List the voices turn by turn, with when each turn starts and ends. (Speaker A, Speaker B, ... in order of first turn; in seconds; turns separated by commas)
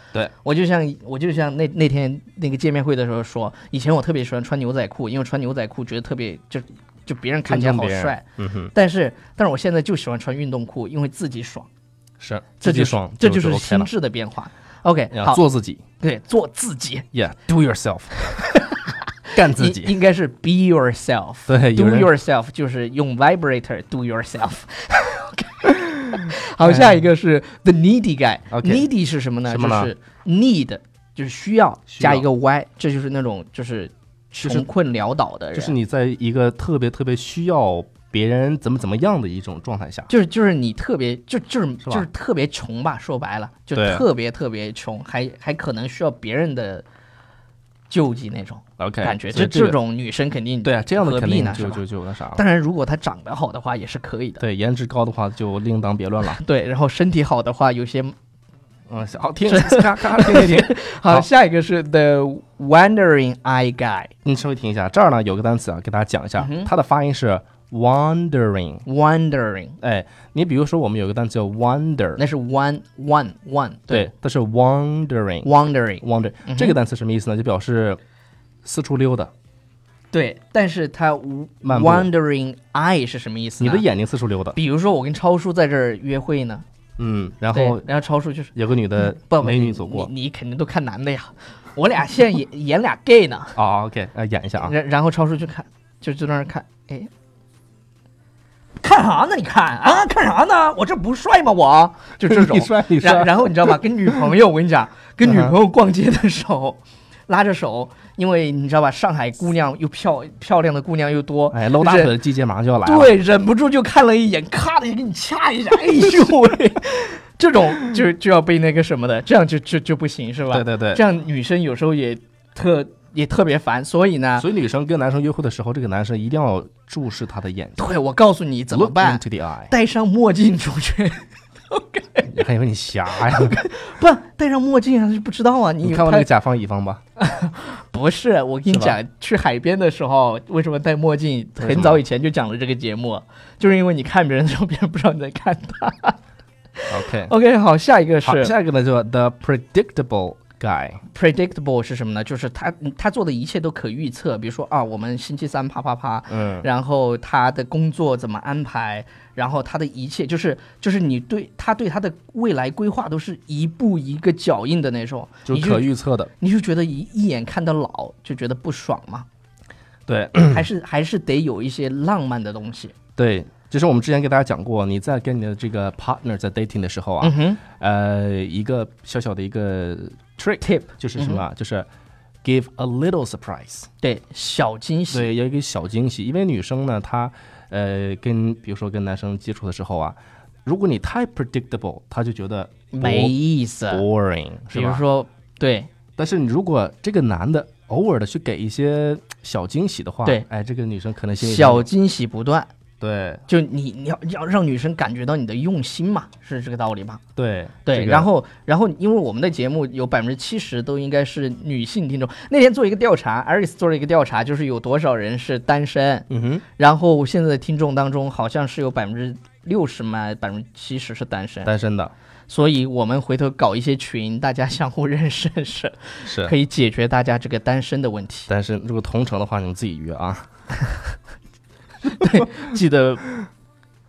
Speaker A: 0.4-11.7, Speaker B: 7.5-8.7, Speaker B: 12.2-13.9, Speaker A: 12.6-15.4, Speaker B: 15.1-15.8, Speaker A: 16.0-17.1, Speaker B: 17.1-18.7, Speaker A: 18.7-35.8, Speaker B: 19.3-19.9, Speaker B: 21.5-22.1, Speaker B: 26.6-27.1, Speaker B: 28.5-28.9, Speaker B: 29.4-29.9, Speaker B: 31.9-32.3, Speaker B: 34.4-34.7, Speaker B: 35.5-40.1, Speaker A: 40.1-46.9, Speaker B: 43.8-44.0, Speaker A: 47.9-51.8, Speaker B: 48.8-49.8, Speaker B: 50.6-52.4, Speaker A: 52.4-54.4, Speaker B: 54.4-56.4, Speaker A: 56.3-58.1, Speaker B: 58.9-61.3, Speaker A: 59.5-64.1, Speaker B: 64.2-68.8, Speaker A: 66.4-66.7, Speaker A: 68.9-69.8, Speaker B: 69.8-72.2, Speaker A: 72.2-74.1, Speaker B: 73.9-75.5, Speaker A: 75.4-76.8, Speaker B: 76.0-78.0, Speaker B: 78.6-79.3, Speaker A: 80.1-83.8, Speaker B: 81.6-82.1, Speaker B: 83.6-84.6, Speaker A: 84.5-86.7, Speaker B: 87.0-87.9, Speaker A: 87.5-93.5, Speaker B: 88.5-90.1, Speaker B: 93.5-94.8, Speaker A: 94.6-97.1, Speaker A: 98.8-112.1, Speaker B: 102.3-103.8, Speaker B: 105.2-105.6, Speaker B: 111.5-113.2, Speaker A: 112.8-124.5, Speaker B: 120.5-121.0, Speaker B: 124.4-127.9, Speaker A: 127.8-132.3, Speaker B: 128.7-129.7, Speaker B: 132.3-133.6, Speaker A: 133.2-136.3, Speaker B: 135.8-137.0, Speaker A: 137.2-146.2, Speaker B: 138.7-139.0, Speaker B: 141.6-142.0, Speaker A: 146.8-148.6, Speaker B: 146.9-147.3, Speaker B: 148.2-151.0, Speaker A: 151.1-169.3, Speaker B: 156.3-156.7, Speaker B: 165.5-166.3, Speaker B: 170.1-170.7, Speaker A: 170.4-172.9, Speaker B: 173.2-181.9, Speaker A: 177.2-177.6, Speaker A: 180.6-181.4, Speaker B: 182.4-183.9, Speaker A: 184.0-185.3, Speaker B: 185.1-193.3, Speaker A: 192.9-194.1, Speaker B: 193.9-195.0, Speaker A: 194.7-195.9, Speaker B: 196.2-201.9, Speaker A: 201.4-202.7, Speaker B: 203.0-203.4, Speaker A: 203.5-207.2, Speaker B: 207.4-208.3, Speaker A: 207.9-221.7, Speaker B: 216.3-216.6, Speaker B: 221.7-222.1, Speaker A: 222.5-228.5, Speaker B: 226.2-226.5, Speaker B: 228.5-230.5, Speaker A: 232.1-233.3